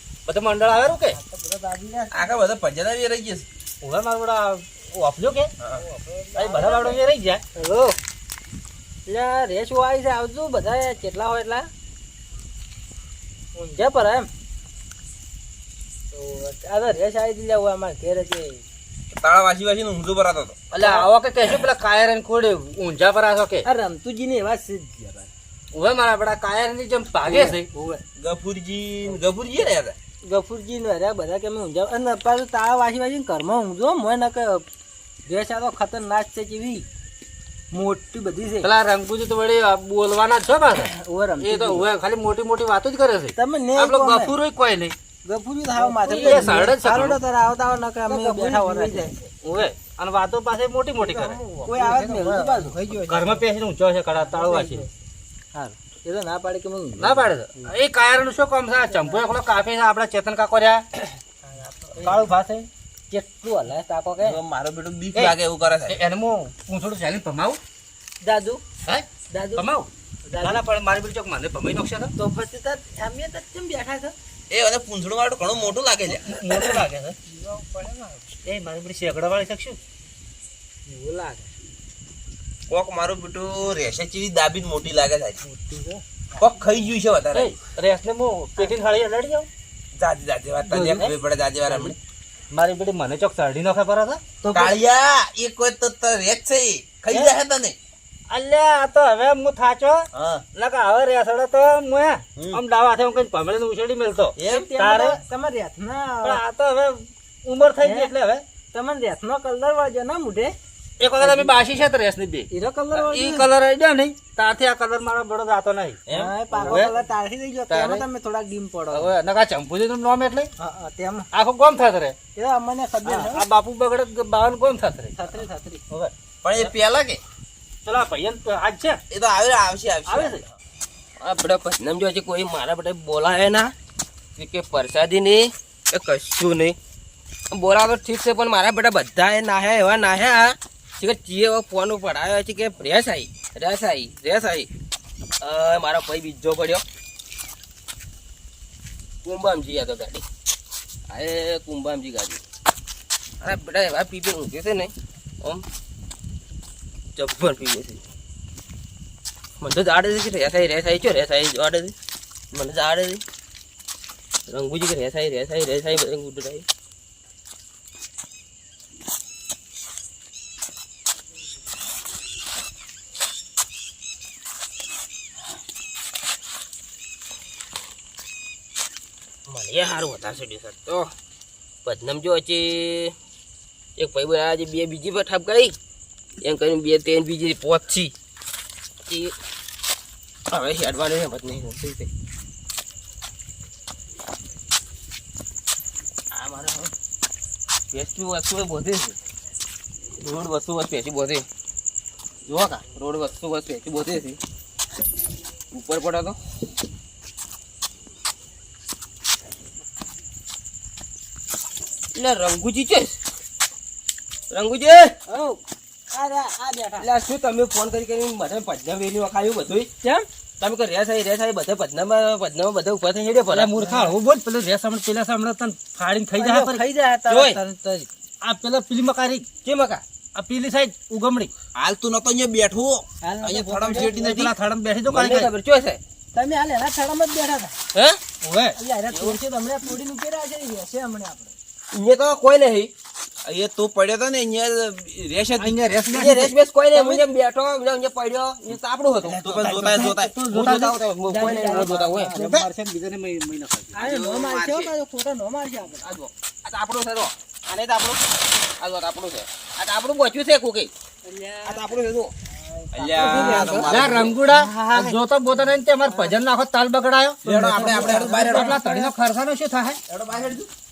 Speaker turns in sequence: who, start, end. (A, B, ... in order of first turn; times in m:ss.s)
0:00.2-0:01.2 A
0:01.1-0:02.3 B
0:02.1-0:03.5 C
0:03.8-0:05.5 A
0:05.7-0:07.0 B
0:06.4-0:07.4 A
0:07.5-0:08.0 B
0:09.1-0:11.7 B
0:13.6-0:14.3 B
0:16.1-0:18.6 B
0:19.1-0:20.6 C
0:20.7-0:23.6 A
0:20.8-0:21.1 B
0:23.6-0:25.3 B
0:25.7-0:27.7 A
0:27.4-0:28.0 B
0:28.2-0:30.0 C
0:30.2-0:34.6 B
0:35.3-0:36.9 B
0:37.7-0:38.7 B
0:38.6-0:44.9 A
0:40.8-0:41.9 B
0:43.4-0:44.3 B
0:45.2-0:49.2 B
0:46.0-0:46.6 D
0:46.0-0:47.2 A
0:48.1-0:49.1 D
0:49.4-0:54.9 A
0:51.6-0:53.2 B
0:54.2-0:54.9 B
0:55.5-0:57.7 B
0:57.0-1:00.9 A
0:58.8-0:59.2 B
1:01.4-1:02.3 B
1:02.0-1:02.7 A
1:03.1-1:04.4 B
1:04.2-1:06.0 C
1:05.9-1:07.6 A
1:08.2-1:08.6 B
1:08.9-1:09.9 A
1:09.3-1:09.6 B
1:10.2-1:10.6 B
1:10.4-1:12.1 A
1:12.2-1:14.1 B
1:14.5-1:16.8 C
1:16.1-1:17.2 A
1:17.3-1:18.3 B
1:18.4-1:19.8 A
1:20.9-1:21.5 B
1:22.7-1:25.4 C
1:25.4-1:26.0 B
1:26.4-1:27.5 C
1:27.3-1:29.5 A
1:30.0-1:32.0 C
1:30.8-1:31.1 B
1:32.5-1:34.2 A
1:34.4-1:34.7 B
1:34.5-1:37.8 C
1:38.3-1:45.2 A
1:40.1-1:40.4 C
1:44.4-1:44.7 C
1:44.5-1:46.4 B
1:46.2-1:48.4 A
1:47.8-1:48.1 B
1:48.7-1:50.5 B
1:51.0-1:56.9 A
1:51.2-1:51.5 B
1:52.5-1:53.5 B
1:56.1-1:59.1 B
1:56.5-1:56.8 D
1:57.7-1:58.0 A
1:58.9-2:00.5 A
2:00.6-2:01.3 B
2:01.3-2:02.2 A
2:02.4-2:03.4 B
2:03.0-2:06.1 A
2:05.1-2:05.8 B
2:06.4-2:07.2 C
2:07.8-2:09.0 A
2:09.1-2:10.5 C
2:10.0-2:10.4 A
2:11.2-2:13.7 D
2:14.4-2:16.8 D
2:17.5-2:24.7 D
2:25.4-2:26.8 D
2:29.2-2:30.2 D
2:31.1-2:32.4 D
2:33.4-2:35.6 D
2:37.2-2:38.0 D
2:39.6-2:42.0 D
2:42.5-2:43.2 D
2:44.5-2:46.6 D
2:59.5-3:01.1 D
3:01.8-3:03.1 D
3:04.0-3:05.8 D
3:06.4-3:08.1 D
3:09.1-3:09.3 D
3:10.5-3:12.1 D
3:16.3-3:16.9 D
3:17.9-3:19.2 D
3:20.2-3:21.5 D
3:22.5-3:24.4 D
3:25.7-3:26.4 D
3:32.1-3:33.2 D
3:34.5-3:35.2 D
3:35.3-3:37.1 B
3:37.0-3:39.9 D
3:40.6-3:43.7 D
3:43.5-3:46.8 A
3:43.8-3:44.1 B
3:46.4-3:48.1 B
3:47.3-3:47.6 D
3:48.4-3:49.5 A
3:49.6-3:50.0 D
3:50.4-3:51.5 A
3:51.8-3:54.5 C
3:53.2-3:54.2 B
3:54.0-3:55.5 A
3:55.1-3:56.0 D
3:56.3-3:57.8 B
3:57.9-3:58.2 D
3:58.4-3:58.8 A
3:58.8-4:01.5 B
3:59.1-3:59.4 D
4:01.9-4:02.9 D
4:03.4-4:05.8 C
4:05.6-4:07.2 A
4:06.1-4:09.6 D
4:09.2-4:10.4 C
4:09.4-4:14.0 A
4:10.5-4:12.3 D
4:11.3-4:12.7 B
4:13.9-4:16.0 B
4:14.0-4:14.9 C
4:16.0-4:18.2 D
4:18.8-4:20.9 D
4:21.2-4:24.1 B
4:21.6-4:22.3 D
4:22.9-4:24.4 C
4:23.2-4:23.9 D
4:23.9-4:30.0 A
4:24.5-4:25.1 D
4:25.5-4:26.3 B
4:27.4-4:29.1 C
4:27.8-4:28.7 B
4:30.1-4:30.7 C